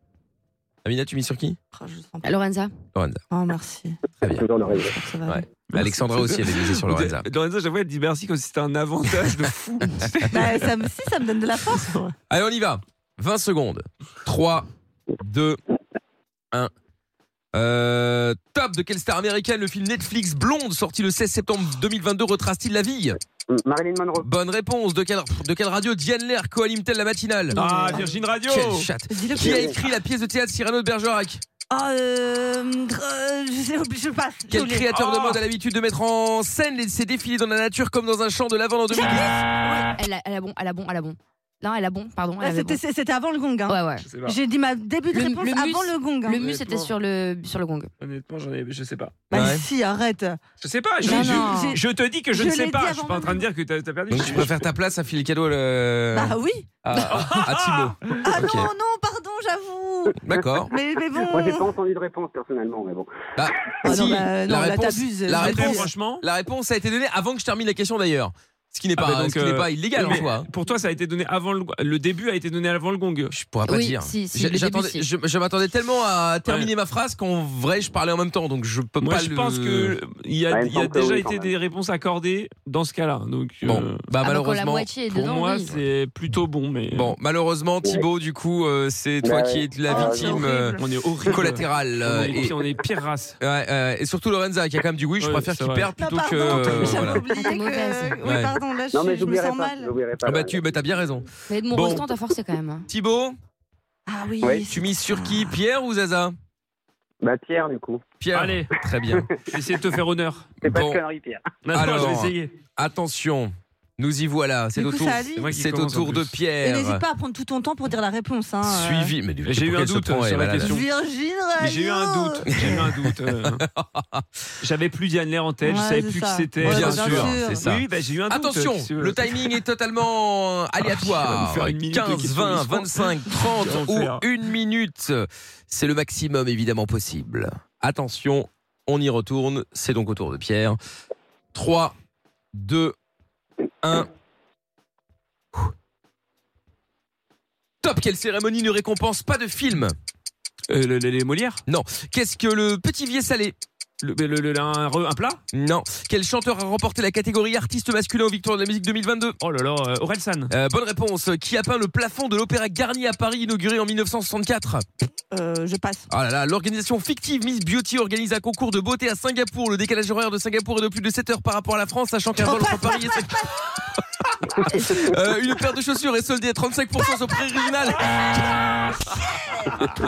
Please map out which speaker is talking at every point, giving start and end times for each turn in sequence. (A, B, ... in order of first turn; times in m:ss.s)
0:00.8-0:01.6 A
0:01.7-0:02.4 B
0:02.2-0:02.7 C
0:02.9-0:03.2 A
0:03.3-0:04.0 B
0:04.2-0:04.5 A
0:04.3-0:05.0 D
0:04.8-0:05.4 B
0:05.2-0:07.2 A
0:05.7-0:10.8 E
0:10.3-0:11.9 B
0:11.7-0:12.1 E
0:12.3-0:14.7 A
0:15.2-0:15.6 A
0:17.5-0:23.2 A
0:23.5-0:24.3 D
0:24.2-0:27.6 A
0:27.5-0:28.1 B
0:27.5-0:28.9 E
0:28.4-0:31.4 A
0:29.1-0:29.7 B
0:29.4-0:29.8 D
0:31.7-0:34.9 B
0:34.5-0:39.4 A
0:34.9-0:35.4 E
0:38.9-0:39.9 B
0:40.0-0:42.8 C
0:42.4-0:46.4 B
0:43.7-0:44.1 C
0:44.0-0:44.4 E
0:45.1-0:47.9 C
0:46.3-0:46.9 E
0:48.0-0:49.2 E
0:49.3-0:50.4 B
0:49.3-0:49.6 A
0:50.6-0:54.5 E
0:51.0-0:53.5 B
0:51.0-0:51.8 C
0:54.1-0:58.7 A
0:56.1-0:56.7 B
0:57.0-0:58.4 E
0:58.2-1:01.7 B
1:00.2-1:00.7 A
1:01.1-1:03.1 D
1:03.4-1:10.5 A
1:03.8-1:05.9 B
1:05.3-1:06.2 E
1:09.0-1:13.3 E
1:13.3-1:20.0 A
1:13.6-1:15.0 C
1:19.0-1:24.0 E
1:20.5-1:21.5 D
1:23.6-1:25.8 A
1:24.2-1:25.7 C
1:25.1-1:27.2 E
1:26.9-1:32.7 A
1:29.2-1:30.4 D
1:29.8-1:30.9 B
1:30.8-1:33.4 E
1:33.4-1:37.3 A
1:35.2-1:35.9 E
1:35.9-1:40.0 B
1:36.4-1:37.1 E
1:36.7-1:38.2 C
1:38.2-1:38.5 A
1:38.9-1:40.6 D
1:40.2-1:42.0 A
1:41.5-1:42.9 C
1:42.9-1:43.4 A
1:44.1-1:45.6 B
1:44.4-1:44.7 D
1:44.7-1:46.3 A
1:47.2-1:48.0 D
1:48.2-1:49.3 A
1:48.3-1:48.7 E
1:49.1-1:49.4 D
1:49.4-1:50.5 E
1:50.6-1:51.4 D
1:50.6-1:51.0 A
1:51.6-1:52.5 E
1:51.7-1:57.0 A
1:54.8-1:55.5 B
1:55.3-1:56.4 E
1:56.6-1:59.1 B
1:58.6-2:00.8 A
1:59.4-2:00.9 E
2:00.7-2:02.6 B
2:01.6-2:03.6 E
2:02.5-2:04.2 A
2:04.6-2:09.5 E
2:05.6-2:07.7 B
2:06.6-2:20.8 A
2:10.8-2:14.2 E
2:21.5-2:21.9 A
2:22.5-2:22.9 A
2:23.8-2:24.1 A
2:27.8-2:29.9 A
2:30.7-2:31.6 E
2:31.7-2:33.5 A
2:34.0-2:35.4 E
2:35.5-2:39.4 A
2:39.4-2:40.5 E
2:40.5-2:44.8 A
2:45.3-2:46.1 B
2:46.1-2:54.0 A
2:52.4-2:53.3 B
2:54.6-2:58.2 A
2:54.7-2:55.0 B
2:59.2-2:59.6 B